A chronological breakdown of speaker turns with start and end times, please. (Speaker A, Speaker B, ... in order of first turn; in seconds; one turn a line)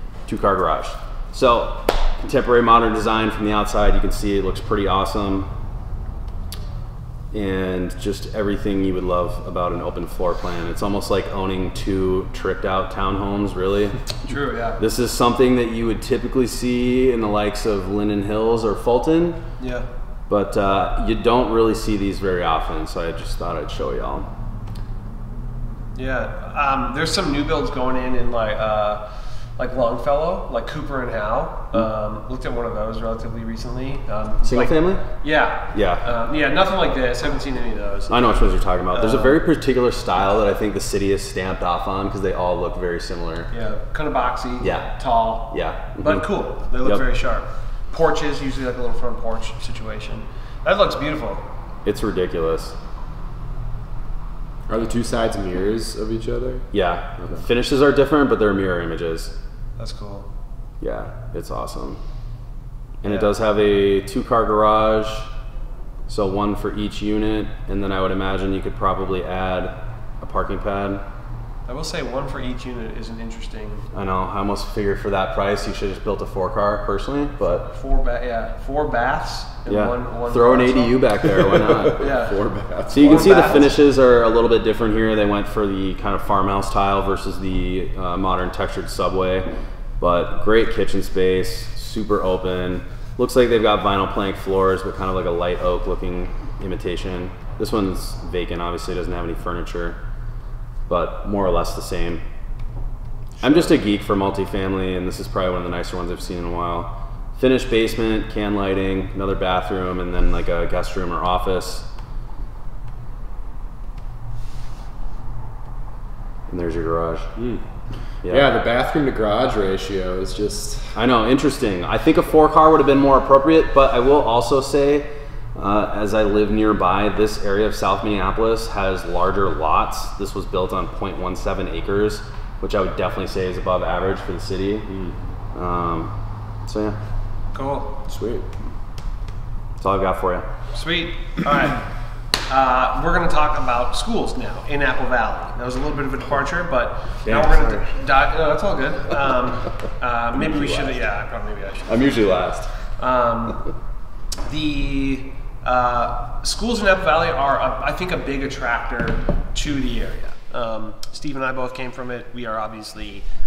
Speaker A: 0.3-5.5
Speaker A: 7.3-14.1
Speaker B: 14.2-14.8
Speaker A: 14.8-19.4
Speaker B: 19.6-19.9
Speaker A: 20.3-24.3
Speaker B: 25.9-29.1
Speaker B: 29.6-38.2
Speaker A: 34.4-35.1
Speaker A: 35.7-36.0
Speaker A: 38.1-43.5
Speaker B: 38.9-39.4
Speaker B: 43.5-51.4
Speaker A: 44.6-44.9
Speaker A: 45.5-46.2
Speaker A: 51.9-52.8
Speaker C: 54.7-56.7
Speaker A: 56.7-59.3
Speaker C: 57.2-57.5
Speaker B: 59.8-60.3
Speaker A: 60.8-62.0
Speaker A: 63.0-65.3
Speaker B: 63.0-63.3
Speaker A: 66.1-71.0
Speaker B: 71.7-73.9
Speaker A: 73.9-77.7
Speaker B: 77.4-81.0
Speaker A: 79.7-82.1
Speaker C: 81.3-83.7
Speaker B: 82.0-83.7
Speaker A: 82.9-89.5
Speaker A: 90.0-100.0
Speaker A: 100.9-102.2
Speaker C: 103.4-103.8
Speaker A: 103.4-111.9
Speaker A: 116.5-117.3
Speaker C: 117.4-117.6
Speaker A: 118.2-118.5
Speaker C: 118.3-121.0
Speaker A: 121.0-134.9
Speaker C: 134.9-135.2
Speaker A: 135.5-136.1
Speaker A: 136.7-137.0
Speaker B: 137.5-138.0
Speaker C: 138.1-138.5
Speaker A: 139.8-140.5
Speaker B: 140.7-141.9
Speaker B: 142.5-152.2
Speaker A: 147.3-147.9
Speaker A: 150.4-151.0
Speaker A: 151.9-152.7
Speaker B: 153.0-153.6
Speaker B: 154.4-163.2